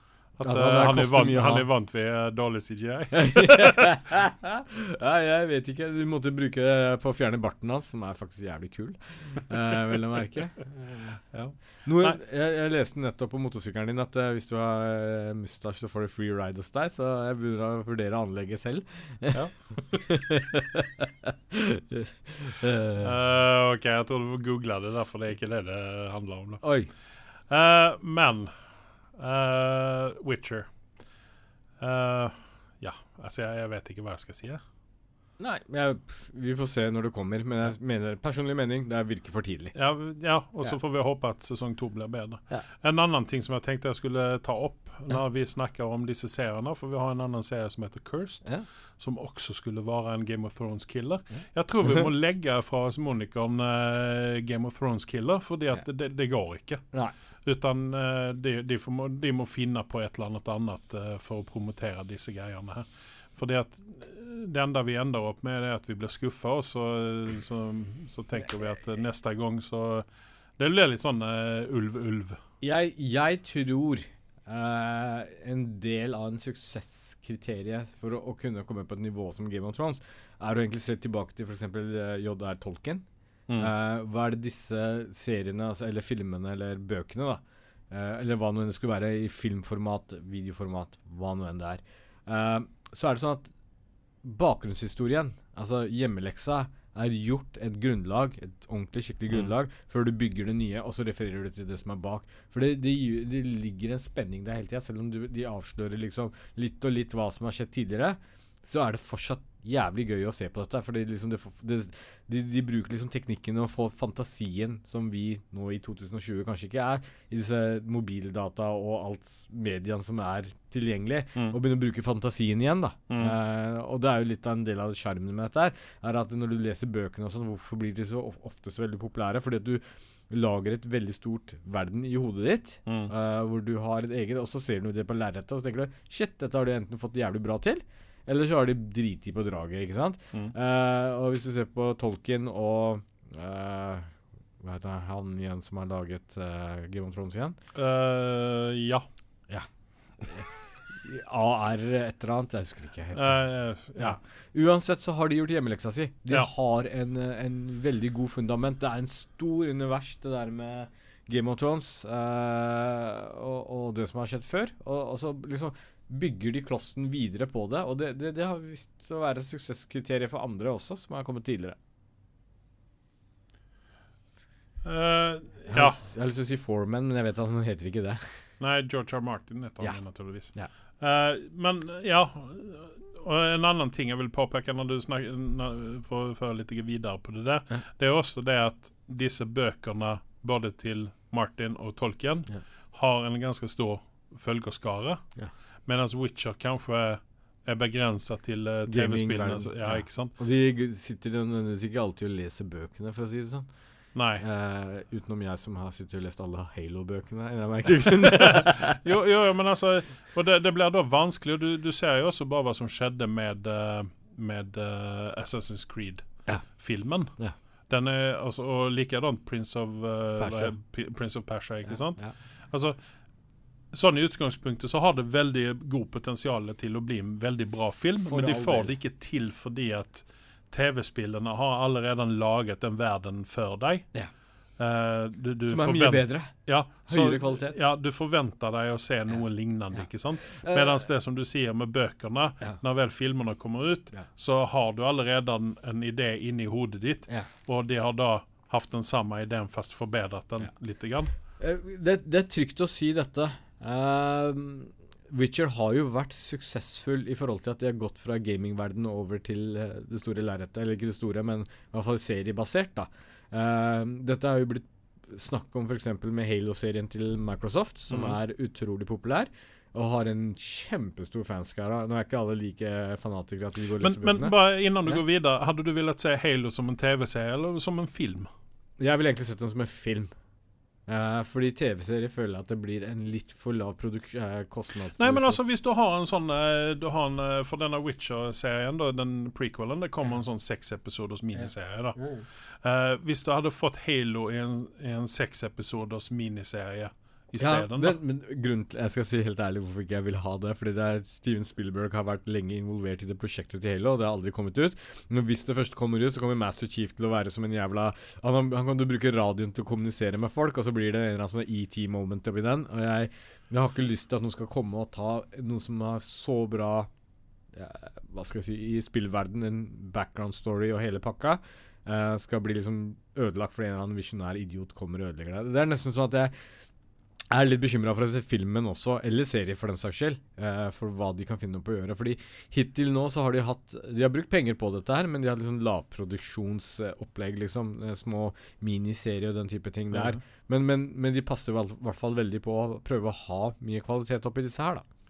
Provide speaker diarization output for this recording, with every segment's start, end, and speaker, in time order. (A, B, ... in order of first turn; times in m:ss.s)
0:00.4-0:04.0 A
0:00.4-0:01.6 B
0:03.2-0:11.2 B
0:11.3-0:12.2 A
0:11.8-0:20.8 B
0:19.3-0:20.1 A
0:21.5-0:23.1 B
0:23.0-0:26.7 A
0:26.6-0:26.9 B
0:27.5-0:30.7 A
0:31.8-0:34.6 A
0:35.4-0:39.7 B
0:39.7-0:56.8 A
0:57.4-1:10.0 A
1:10.6-1:12.4 A
1:12.6-1:23.0 B
1:23.6-1:33.5 B
1:34.2-2:27.6 B
2:03.1-2:03.3 A
2:12.8-2:13.1 A
2:27.7-2:29.0 A
2:30.2-2:51.8 B
2:33.1-2:34.2 A
2:54.8-2:56.0 A
2:55.7-2:58.2 B
2:58.6-3:15.2 A
2:59.8-3:00.7 B
3:15.8-3:20.3 A
3:18.8-3:29.0 B
3:24.1-3:24.4 A
3:28.0-3:37.4 A
3:37.9-3:43.0 A
3:40.4-3:40.7 B
3:41.8-3:42.4 B
3:43.9-3:54.1 A
3:48.2-3:49.0 B
3:54.8-4:11.3 A
3:55.6-3:57.8 B
3:59.9-4:01.0 B
4:11.5-4:35.2 B
4:28.1-4:28.4 A
4:34.0-4:38.5 A
4:39.0-4:40.3 B
4:41.1-4:45.6 B
4:45.1-4:58.2 A
4:51.6-4:52.4 B
4:57.6-5:17.1 B
5:17.7-5:26.5 B
5:27.5-5:45.0 B
5:40.1-5:40.4 A